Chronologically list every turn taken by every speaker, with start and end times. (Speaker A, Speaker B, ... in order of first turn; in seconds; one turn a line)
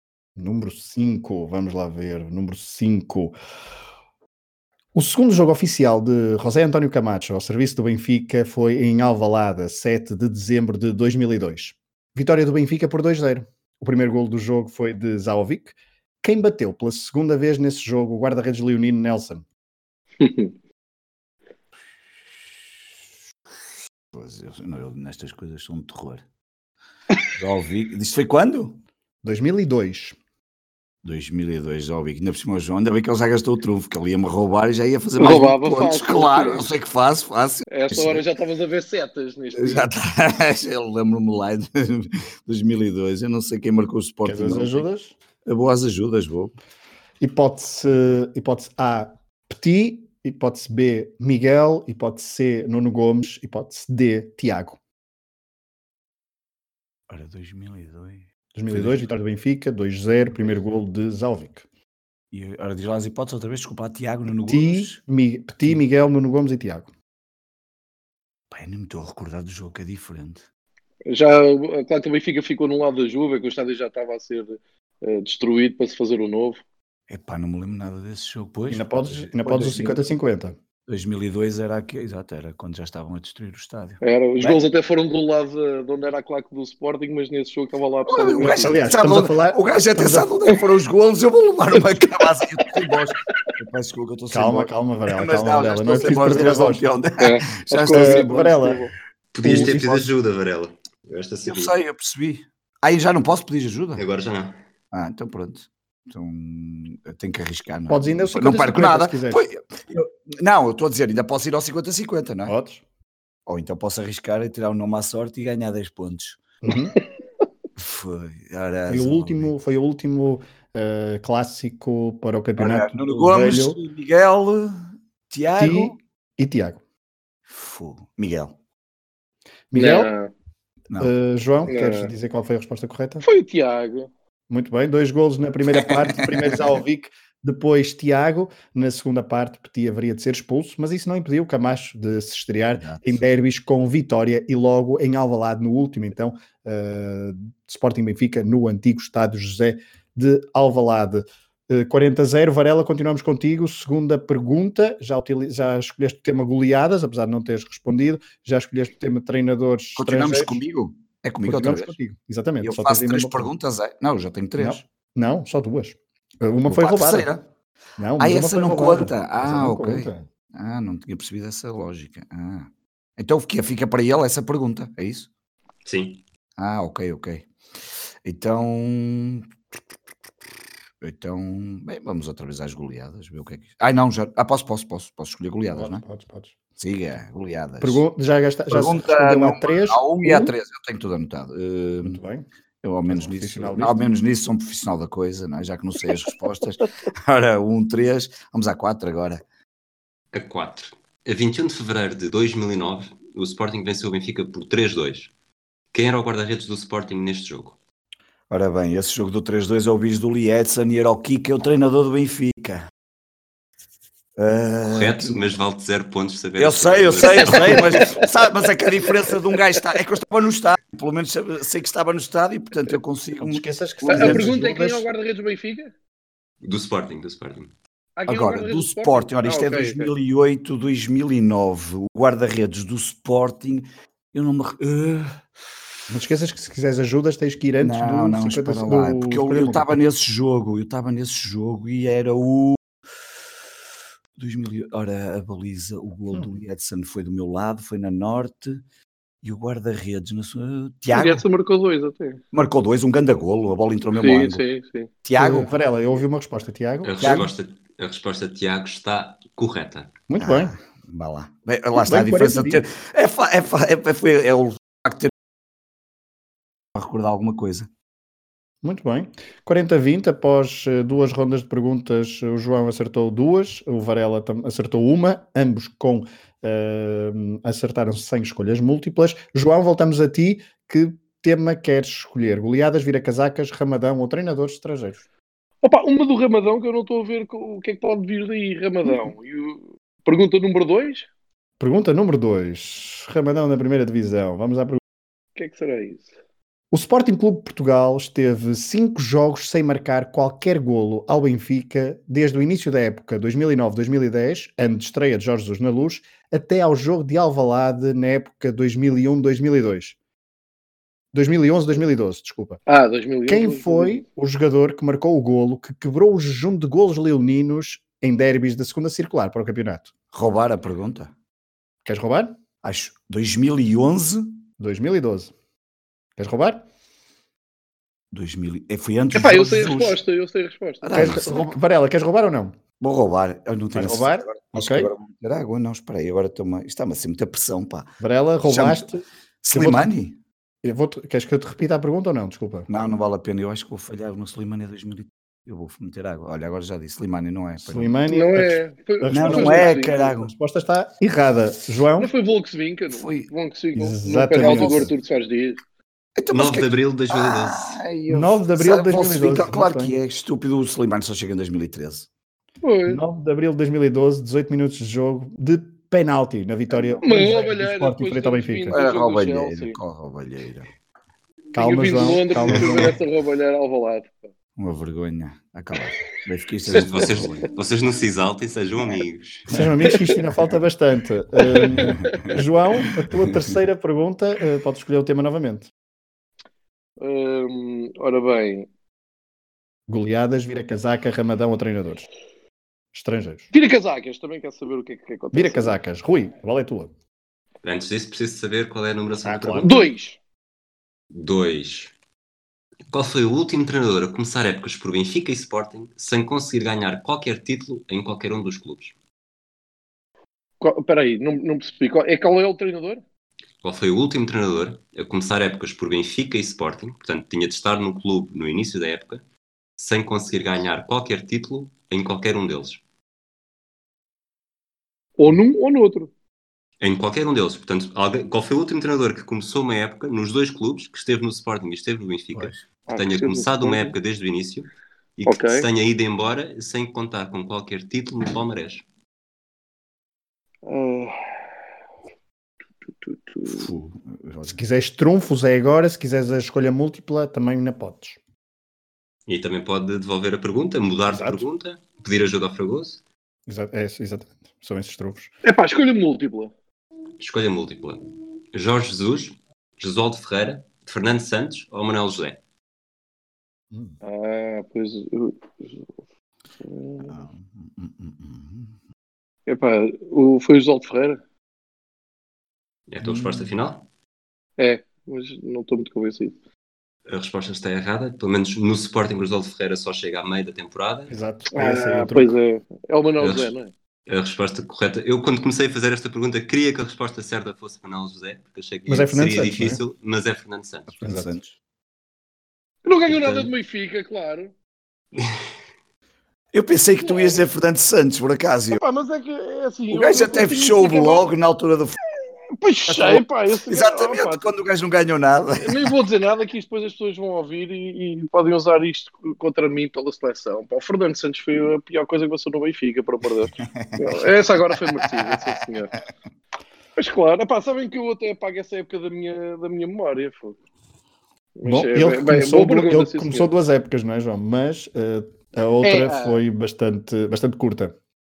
Speaker A: 0.4-3.3
Speaker A: 4.9-19.4
Speaker B: 20.2-20.5
Speaker C: 24.1-26.2
Speaker C: 27.4-28.8
Speaker A: 29.2-30.1
Speaker C: 31.0-38.2
Speaker B: 35.2-36.7
Speaker B: 37.7-39.9
Speaker C: 39.5-44.9
Speaker A: 44.2-45.1
Speaker C: 45.4-46.5
Speaker A: 47.2-54.8
Speaker C: 57.1-59.1
Speaker A: 58.5-61.6
Speaker C: 62.3-65.0
Speaker A: 64.5-66.9
Speaker C: 68.5-70.4
Speaker B: 71.0-76.6
Speaker C: 77.1-80.0
Speaker A: 78.7-80.5
Speaker C: 80.9-84.0
Speaker B: 84.0-88.7
Speaker C: 88.1-98.4
Speaker A: 88.4-90.3
Speaker A: 94.3-96.8
Speaker B: 97.2-98.9
Speaker A: 97.9-98.8
Speaker D: 99.3-101.7
Speaker A: 99.4-100.1
Speaker C: 101.5-104.0
Speaker D: 104.0-104.6
Speaker C: 104.9-112.5
Speaker A: 107.9-109.4
Speaker A: 112.5-112.8
Speaker C: 113.5-116.4
Speaker A: 116.6-117.0
Speaker C: 117.8-119.5
Speaker A: 118.9-123.8
Speaker C: 122.6-126.0
Speaker A: 125.6-126.8
Speaker C: 127.5-128.6
Speaker A: 129.7-130.1
Speaker B: 129.7-130.3
Speaker A: 131.0-133.2
Speaker B: 131.7-132.1
Speaker B: 133.2-134.1
Speaker A: 134.5-160.6
Speaker C: 135.7-136.8
Speaker C: 142.8-143.2
Speaker C: 159.9-161.9
Speaker A: 161.4-163.5
Speaker C: 162.6-164.8
Speaker A: 164.6-167.3
Speaker C: 166.7-167.4
Speaker A: 168.0-170.2
Speaker C: 168.2-175.3
Speaker D: 175.8-176.2
Speaker C: 176.6-177.5
Speaker C: 178.2-179.5
Speaker C: 181.0-186.0
Speaker A: 185.7-186.5
Speaker C: 186.8-188.0
Speaker A: 187.8-190.5
Speaker C: 188.7-192.2
Speaker A: 192.0-192.4
Speaker C: 192.8-199.4
Speaker A: 193.1-194.0
Speaker D: 200.3-205.3
Speaker D: 205.9-207.8
Speaker C: 208.5-212.8
Speaker C: 214.4-215.4
Speaker D: 214.8-218.2
Speaker C: 216.6-224.5
Speaker A: 223.4-225.1
Speaker B: 224.1-225.9
Speaker D: 226.6-227.7
Speaker B: 228.2-230.1
Speaker C: 228.3-235.4
Speaker A: 236.1-239.9
Speaker C: 237.8-242.8
Speaker C: 244.4-248.8
Speaker C: 249.4-251.4
Speaker B: 251.1-252.4
Speaker C: 252.5-254.6
Speaker B: 254.1-255.6
Speaker C: 255.2-255.7
Speaker A: 255.4-257.4
Speaker D: 257.0-260.1
Speaker C: 257.2-257.5
Speaker A: 260.3-260.7
Speaker C: 260.4-265.3
Speaker A: 262.0-262.8
Speaker C: 266.9-267.9
Speaker A: 268.8-285.2
Speaker B: 285.8-291.3
Speaker A: 291.8-295.0
Speaker B: 295.6-296.3
Speaker A: 296.9-310.1
Speaker A: 311.3-312.8
Speaker B: 312.9-314.2
Speaker A: 313.5-320.1
Speaker C: 320.3-321.3
Speaker A: 322.0-322.6
Speaker C: 322.8-324.6
Speaker A: 324.8-325.5
Speaker A: 326.4-326.8
Speaker C: 328.3-330.2
Speaker B: 329.3-331.4
Speaker C: 331.0-331.8
Speaker A: 331.1-332.8
Speaker C: 333.0-338.1
Speaker A: 333.9-335.1
Speaker A: 338.2-340.1
Speaker C: 338.6-339.1
Speaker C: 339.6-340.4
Speaker A: 340.8-342.9
Speaker C: 342.9-348.1
Speaker A: 347.9-352.3
Speaker B: 348.3-350.3
Speaker C: 349.3-350.5
Speaker B: 352.2-355.8
Speaker C: 353.1-353.5
Speaker A: 353.9-355.1
Speaker C: 354.6-355.1
Speaker C: 356.4-362.3
Speaker D: 356.5-358.0
Speaker A: 358.3-360.1
Speaker B: 362.8-363.2
Speaker A: 363.1-369.0
Speaker B: 367.2-370.0
Speaker C: 368.9-370.9
Speaker B: 371.7-374.5
Speaker A: 371.7-373.2
Speaker C: 374.8-377.7
Speaker D: 376.9-379.8
Speaker A: 379.7-385.9
Speaker B: 381.6-382.5
Speaker C: 382.2-382.6
Speaker C: 383.4-383.7
Speaker B: 387.2-388.9
Speaker A: 390.1-392.3
Speaker A: 393.1-393.7
Speaker B: 393.7-396.0
Speaker A: 395.5-397.1
Speaker D: 397.8-400.0
Speaker A: 399.4-399.9
Speaker B: 399.8-400.4
Speaker D: 401.3-402.1
Speaker D: 403.1-409.1
Speaker B: 410.8-413.2
Speaker D: 413.8-419.4
Speaker D: 420.0-423.0
Speaker B: 425.4-426.3
Speaker D: 427.0-439.0
Speaker B: 433.1-434.1
Speaker B: 435.4-435.9
Speaker B: 440.9-441.4
Speaker B: 443.2-443.9
Speaker C: 443.6-444.8
Speaker A: 444.6-448.4
Speaker D: 449.5-453.2
Speaker A: 451.3-451.6
Speaker A: 453.7-455.5
Speaker B: 455.6-456.7
Speaker D: 457.4-462.6
Speaker A: 463.9-464.2
Speaker B: 464.2-466.1
Speaker B: 466.8-467.3
Speaker C: 467.3-468.9
Speaker B: 469.7-471.4
Speaker D: 473.1-474.1
Speaker C: 473.2-473.6
Speaker B: 474.8-476.6
Speaker D: 477.3-481.3
Speaker A: 481.3-482.5
Speaker B: 481.7-483.9
Speaker D: 483.4-483.7
Speaker D: 484.3-491.1
Speaker A: 489.1-490.0
Speaker C: 491.1-491.8
Speaker A: 491.2-491.5
Speaker B: 493.0-494.7
Speaker C: 493.3-493.7
Speaker C: 496.7-499.0
Speaker B: 497.2-497.6
Speaker B: 498.9-501.5
Speaker C: 500.1-502.2
Speaker B: 502.7-504.7
Speaker C: 503.1-506.1
Speaker B: 505.8-516.2
Speaker C: 513.8-515.8
Speaker B: 517.1-520.8
Speaker B: 521.8-523.7
Speaker A: 521.8-528.1
Speaker B: 526.0-526.6